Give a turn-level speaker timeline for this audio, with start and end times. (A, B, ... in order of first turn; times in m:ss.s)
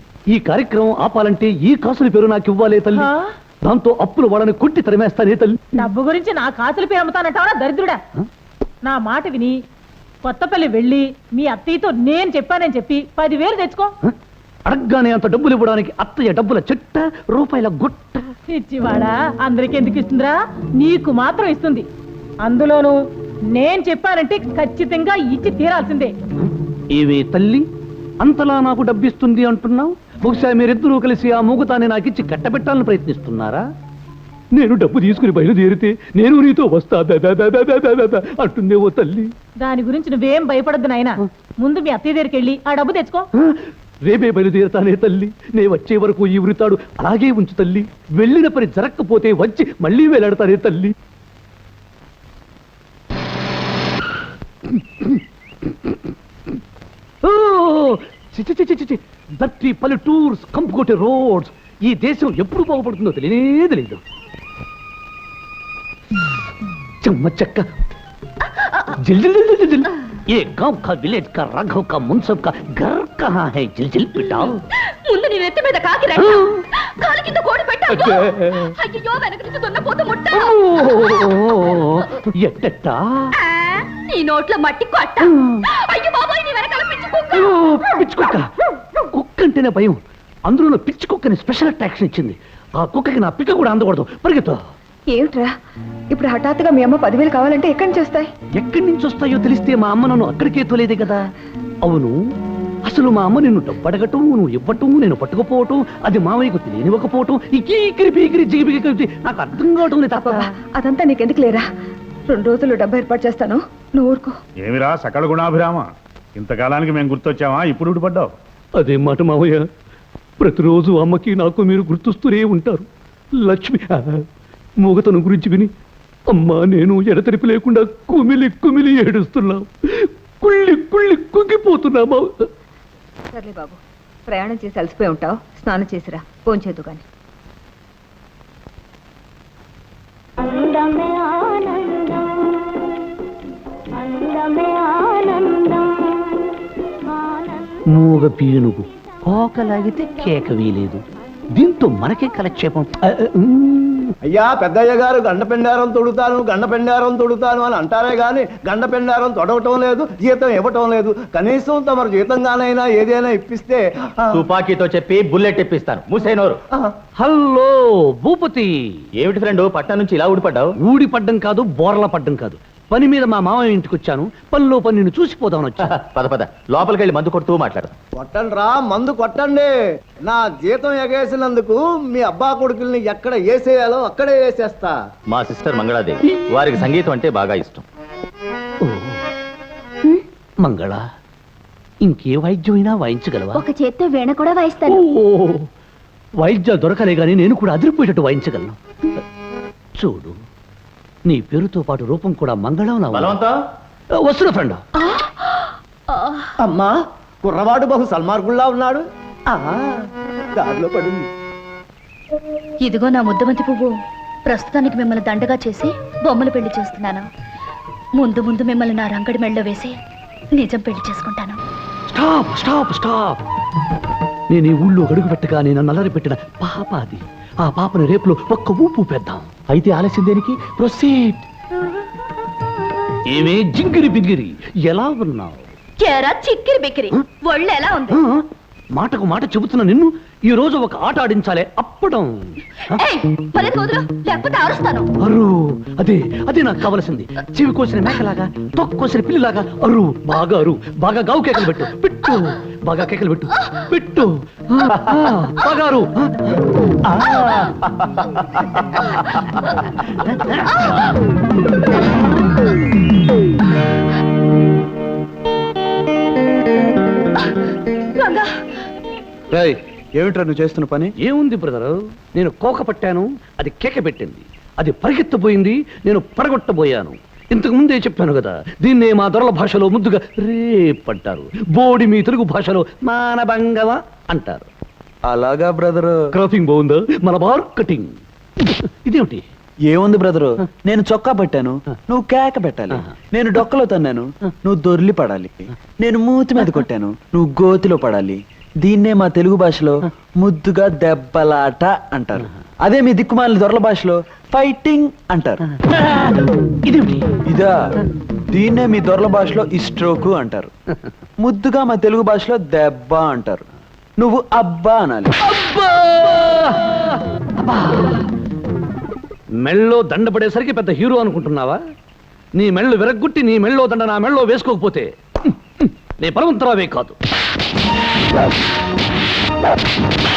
0:00.3-0:03.1 A
0:02.9-0:03.3 B
0:03.6-0:05.9 A
0:05.8-0:08.0 B
0:08.8-0:09.6 B
0:10.2-0:13.9 B
0:14.6-0:18.3 A
0:18.5-0:21.8 B
0:22.4-0:23.0 B
0:23.5-0:26.1 B
0:26.9-0:27.6 A
0:28.2-0:33.6 A
0:34.5-0:39.3 A
0:39.6-0:43.3 B
0:43.4-0:50.9 A
0:54.7-0:56.0 A
0:57.2-1:04.0 A
1:07.0-1:07.7 A
1:09.0-1:14.6 A
1:16.0-1:16.4 C
1:16.2-1:16.6 A
1:17.3-1:18.2 C
1:17.9-1:18.7 A
1:18.8-1:19.1 D
1:19.6-1:20.0 C
1:20.3-1:23.3 A
1:25.3-1:25.7 A
1:26.8-1:27.5 C
1:27.3-1:34.6 A
1:35.1-1:35.5 E
1:36.1-1:38.3 E
1:38.6-1:41.3 A
1:41.8-1:42.2 A
1:42.8-1:50.5 A
1:50.1-1:51.6 E
1:52.3-1:54.4 E
1:54.6-1:58.3 F
1:58.8-1:59.6 A
2:00.4-2:02.9 A
2:03.4-2:04.2 A
2:04.8-2:05.7 A
2:06.3-2:12.5 A
2:13.3-2:17.0 E
2:20.8-2:22.2 C
2:24.2-2:25.8 C
2:27.9-2:31.0 A
2:31.5-2:34.1 A
2:34.2-2:44.4 G
2:44.3-2:46.6 H
2:47.2-2:48.8 A
2:49.2-2:50.7 H
2:50.8-2:56.0 A
2:55.9-2:57.9 H
2:58.2-2:59.7 G
3:00.3-3:04.9 G
3:05.3-3:07.8 H
3:08.8-3:09.2 A
3:10.6-3:11.0 A
3:12.0-3:13.6 A
3:13.5-3:15.0 C
3:14.8-3:15.7 A
3:16.4-3:19.2 A
3:20.0-3:20.4 A
3:21.3-3:23.4 A
3:23.1-3:23.5 H
3:24.2-3:24.8 A
3:26.6-3:29.9 G
3:30.6-3:31.3 G
3:32.8-3:37.3 D
3:38.2-3:39.9 D
3:40.6-3:41.6 D
3:42.1-3:43.4 A
3:44.5-3:49.5 A
3:49.7-3:51.4 H
3:53.3-3:55.7 A
3:56.0-3:58.2 D
3:58.1-4:03.0 A
4:03.1-4:05.1 D
4:05.2-4:16.6 A
4:17.2-4:18.1 H
4:28.2-4:28.5 D
4:29.5-4:31.1 I
4:31.2-4:44.7 A
4:45.3-4:46.2 I
4:46.3-4:49.4 A
4:49.9-5:05.6 I
5:05.8-5:07.3 A
5:07.4-5:07.7 I
5:08.5-5:10.7 I
5:11.4-5:13.6 I
5:14.2-5:15.3 I
5:15.4-5:18.2 A
5:19.6-5:21.8 A
5:22.6-5:27.2 A